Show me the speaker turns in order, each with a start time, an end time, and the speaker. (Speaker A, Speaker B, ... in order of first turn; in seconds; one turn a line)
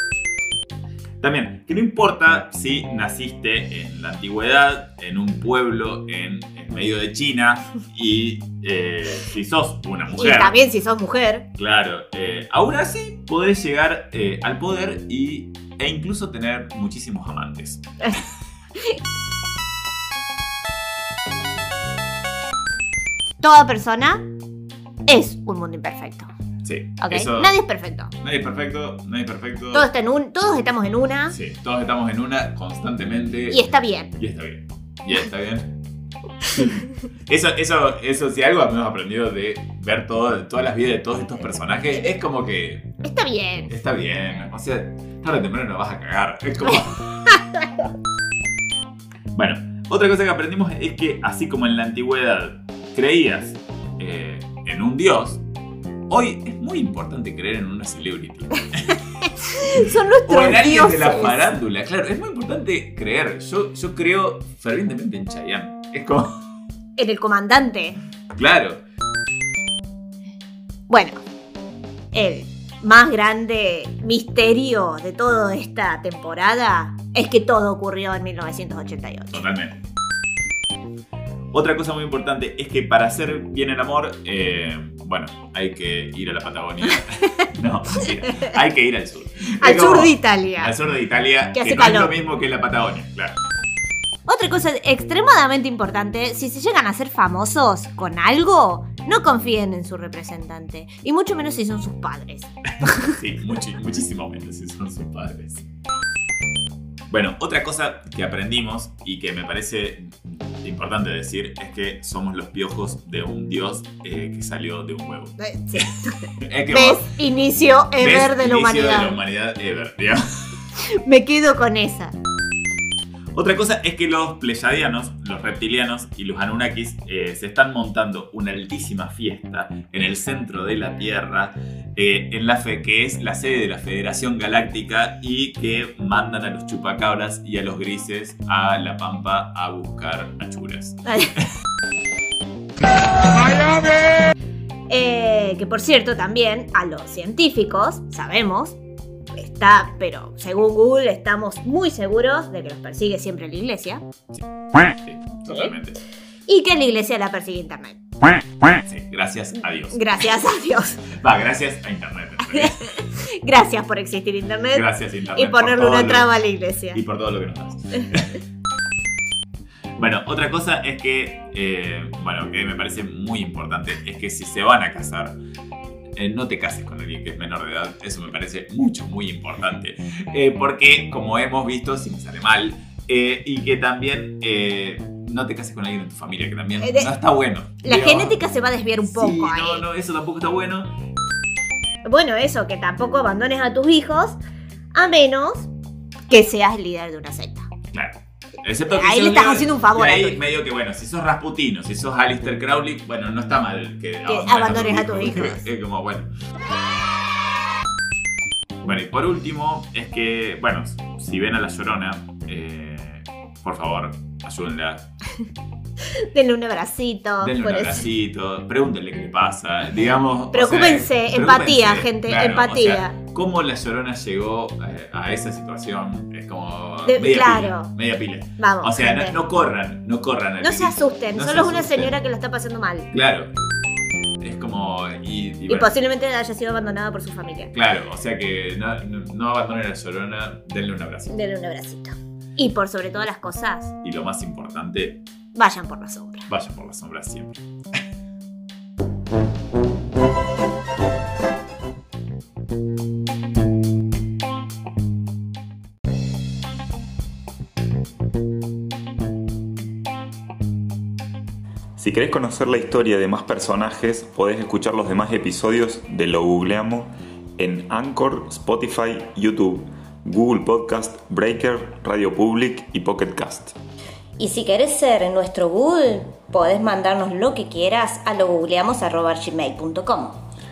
Speaker A: 1.2-10.6
Speaker B: 10.1-11.4
Speaker A: 11.5-17.8
Speaker B: 23.4-24.2
Speaker B: 25.1-26.3
Speaker A: 26.6-27.5
Speaker B: 27.0-28.1
Speaker A: 28.2-29.9
Speaker B: 29.7-31.4
Speaker A: 31.3-33.6
Speaker B: 33.5-34.1
Speaker A: 34.2-35.7
Speaker A: 37.3-43.0
Speaker B: 43.0-43.7
Speaker A: 43.7-47.0
Speaker A: 49.3-55.4
Speaker A: 56.1-58.8
Speaker B: 59.4-61.5
Speaker A: 59.8-66.4
Speaker B: 67.0-68.0
Speaker A: 68.3-68.8
Speaker B: 70.9-71.2
Speaker B: 72.1-79.4
Speaker A: 79.3-79.8
Speaker A: 81.5-93.3
Speaker B: 89.6-90.7
Speaker B: 91.5-92.1
Speaker B: 94.3-102.5
Speaker A: 103.1-105.6
Speaker A: 107.1-115.8
Speaker B: 115.4-116.2
Speaker A: 116.4-117.1
Speaker B: 116.7-119.2
Speaker A: 118.0-120.2
Speaker B: 120.8-122.1
Speaker A: 123.3-141.4
Speaker B: 144.9-148.8
Speaker B: 149.3-154.0
Speaker A: 154.3-156.0
Speaker B: 155.5-155.7
Speaker B: 156.5-158.0
Speaker A: 158.8-160.0
Speaker B: 159.9-161.0
Speaker A: 161.1-162.9
Speaker B: 163.2-167.0
Speaker A: 164.7-166.3
Speaker A: 166.9-168.3
Speaker A: 170.0-175.3
Speaker A: 176.2-188.4
Speaker B: 186.8-187.1
Speaker B: 187.8-189.8
Speaker A: 189.0-190.9
Speaker B: 192.1-194.4
Speaker B: 194.9-195.7
Speaker B: 196.3-197.7
Speaker A: 197.9-206.3
Speaker B: 198.9-200.4
Speaker B: 204.3-205.6
Speaker A: 208.8-215.1
Speaker B: 216.3-218.0
Speaker A: 217.4-232.1
Speaker B: 220.5-223.1
Speaker B: 227.1-227.9
Speaker B: 228.6-229.4
Speaker B: 230.6-233.1
Speaker A: 233.1-233.5
Speaker A: 234.4-235.9
Speaker B: 235.7-237.7
Speaker A: 237.7-241.4
Speaker B: 241.3-243.9
Speaker A: 244.0-245.2
Speaker B: 245.5-246.5
Speaker A: 246.5-247.6
Speaker C: 262.0-273.7
Speaker B: 274.4-280.4